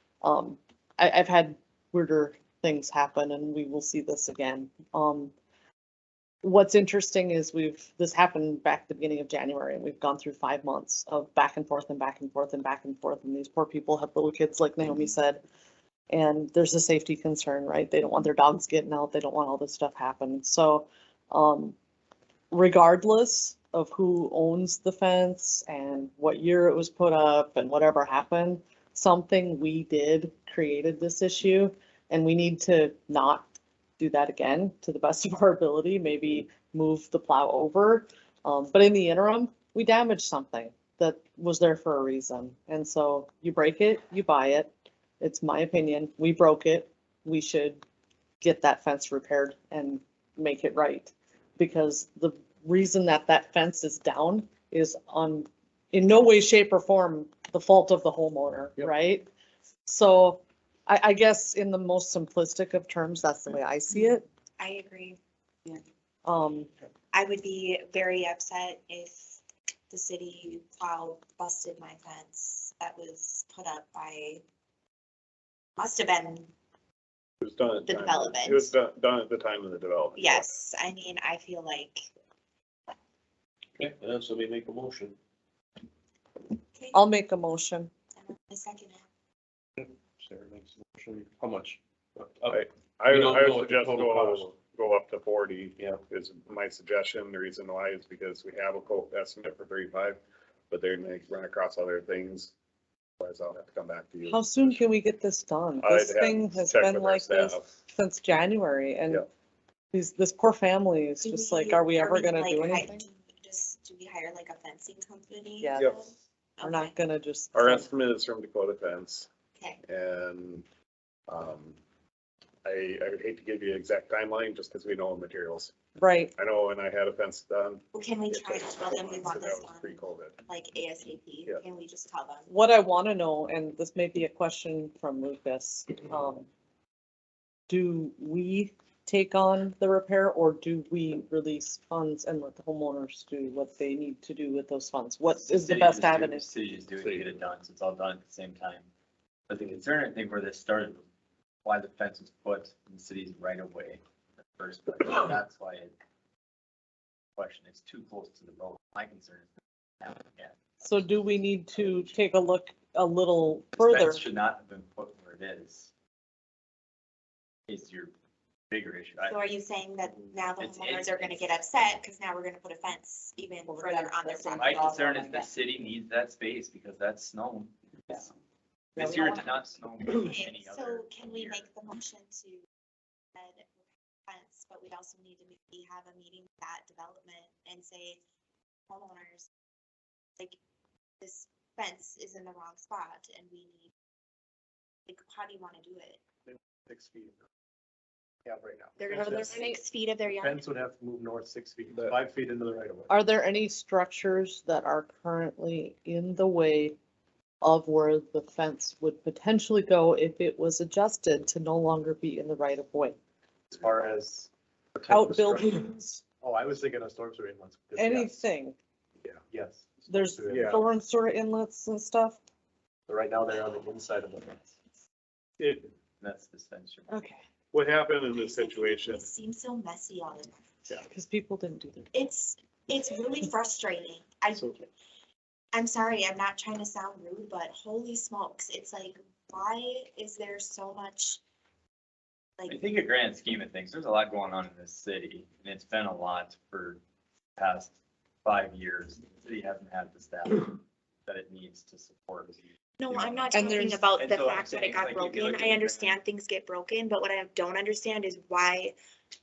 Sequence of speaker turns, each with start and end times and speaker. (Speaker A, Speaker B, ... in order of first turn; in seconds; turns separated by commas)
Speaker A: 0.2-5.3, Speaker A: 6.4-15.4, Speaker A: 16.1-21.8, Speaker A: 22.5-33.5, Speaker A: 34.0-47.8, Speaker A: 48.4-59.3, Speaker A: 59.9-64.2, Speaker B: 64.0-65.8, Speaker A: 66.2-66.7, Speaker B: 67.1-74.4, Speaker B: 75.8-76.5, Speaker C: 77.4-80.6, Speaker B: 77.8-78.8, Speaker B: 80.2-82.1, Speaker D: 83.8-85.1, Speaker B: 86.8-87.0, Speaker A: 86.9-87.9, Speaker B: 88.2-89.0, Speaker E: 90.5-91.2, Speaker D: 91.4-91.7, Speaker C: 92.5-102.5, Speaker D: 93.1-94.1, Speaker C: 103.2-104.8, Speaker A: 104.3-109.3, Speaker C: 105.8-107.7, Speaker A: 109.9-113.1, Speaker B: 111.2-117.0, Speaker A: 115.6-116.0, Speaker C: 115.8-116.0, Speaker A: 116.6-117.9, Speaker C: 117.5-119.3, Speaker B: 119.5-119.8, Speaker C: 119.8-120.7, Speaker C: 121.3-121.8, Speaker C: 122.6-125.7, Speaker A: 126.0-126.3, Speaker C: 126.4-130.4, Speaker B: 127.9-132.5, Speaker A: 132.5-136.5, Speaker A: 137.7-146.5, Speaker F: 145.4-148.9, Speaker C: 147.0-147.2, Speaker F: 149.5-151.0, Speaker F: 151.6-155.9, Speaker F: 157.4-161.2, Speaker A: 160.8-164.2, Speaker F: 161.8-162.0, Speaker F: 163.8-165.9, Speaker F: 167.7-168.1, Speaker F: 168.7-169.4, Speaker B: 169.2-175.2, Speaker F: 170.6-171.6, Speaker A: 173.7-175.5, Speaker F: 174.6-178.3, Speaker F: 179.0-181.7, Speaker A: 179.0-179.4, Speaker B: 180.2-182.7, Speaker B: 183.3-183.7, Speaker B: 184.3-188.2, Speaker B: 188.9-189.5, Speaker B: 191.2-193.9, Speaker B: 195.1-196.2, Speaker E: 196.5-197.4, Speaker E: 198.4-199.8, Speaker B: 199.0-200.7, Speaker E: 200.3-203.1, Speaker A: 203.1-207.0, Speaker A: 207.6-213.2, Speaker E: 213.7-215.9, Speaker A: 215.1-216.2, Speaker E: 216.4-218.5, Speaker A: 218.0-218.8, Speaker E: 219.5-220.8, Speaker A: 220.1-222.4, Speaker C: 220.5-220.8, Speaker E: 223.1-224.8, Speaker C: 225.6-225.9, Speaker F: 226.2-227.1, Speaker A: 227.1-227.4, Speaker C: 227.7-229.2, Speaker B: 228.3-230.9, Speaker A: 231.1-232.1, Speaker B: 232.1-234.8, Speaker B: 235.7-241.4, Speaker F: 242.7-247.0, Speaker F: 247.6-256.2, Speaker B: 253.0-258.9, Speaker A: 253.5-254.1